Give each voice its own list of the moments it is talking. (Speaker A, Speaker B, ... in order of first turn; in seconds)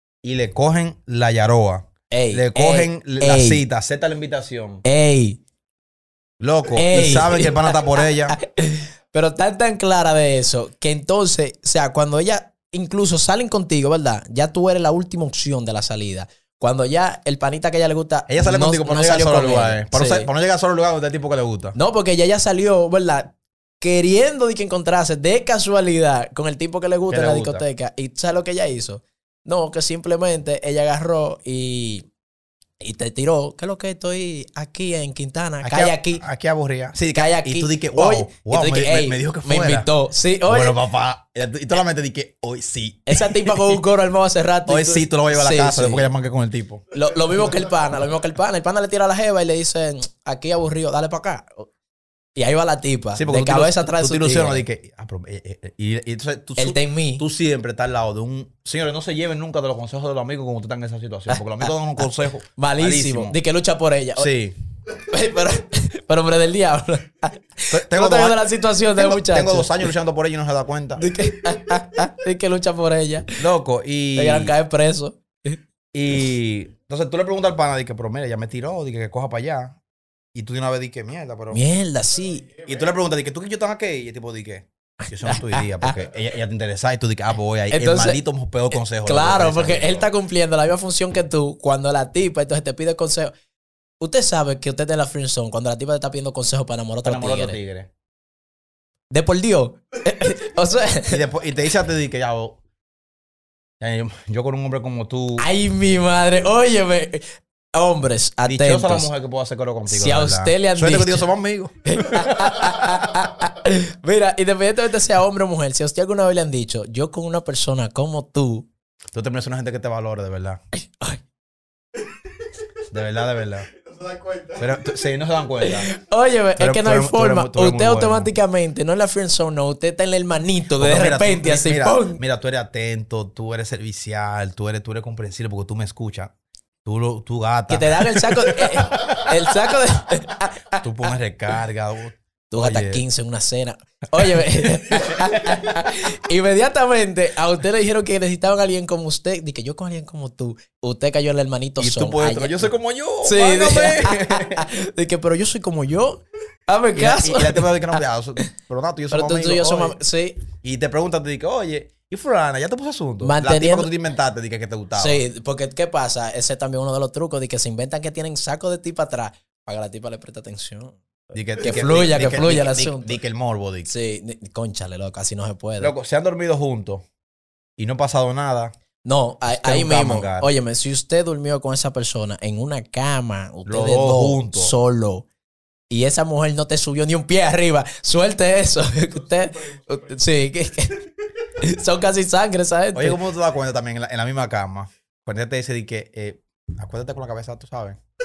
Speaker A: 0.2-4.8, 6.4-8.4, 18.3-21.7, 27.1-27.6, 35.6-39.9, 40.5-43.8, 44.7-46.8, 53.1-63.4, 64.2-64.5, 67.7-71.1, 73.4-74.5, 75.9-79.8, 80.3-81.6, 82.6-90.1, 97.0-97.9, 101.1-102.6, 103.8-105.5, 108.5-113.2, 119.1-120.6, 122.9-123.7, 124.5-125.9, 126.6-128.3, 130.8-136.3, 136.8-139.3, 140.8-143.0, 144.2-145.5, 151.8-154.7, 156.9-160.0, 160.6-165.2, 171.3-173.9, 175.8-177.0, 177.8-178.7, 179.5-180.5, 183.7-184.7, 192.9-198.0
Speaker B: 2.1-3.6, 4.8-5.4, 6.7-20.3, 21.7-32.1, 32.8-36.2, 37.1-40.8, 43.1-46.1, 46.9-51.7, 52.4-54.6, 56.6-57.2, 61.3-64.3, 64.9-69.9, 71.0-73.4, 74.2-75.6, 81.5-82.6, 85.0-85.9, 87.7-88.2, 89.0-93.3, 94.0-97.6, 99.1-101.2, 105.4-109.1, 109.9-111.2, 111.8-118.7, 120.7-121.2, 125.6-132.2, 137.7-140.8, 142.5-152.7, 153.2-158.0, 159.1-160.4, 163.2-163.9, 164.9-171.0, 171.6-173.2, 173.8-175.9, 179.0-185.2, 185.9-193.2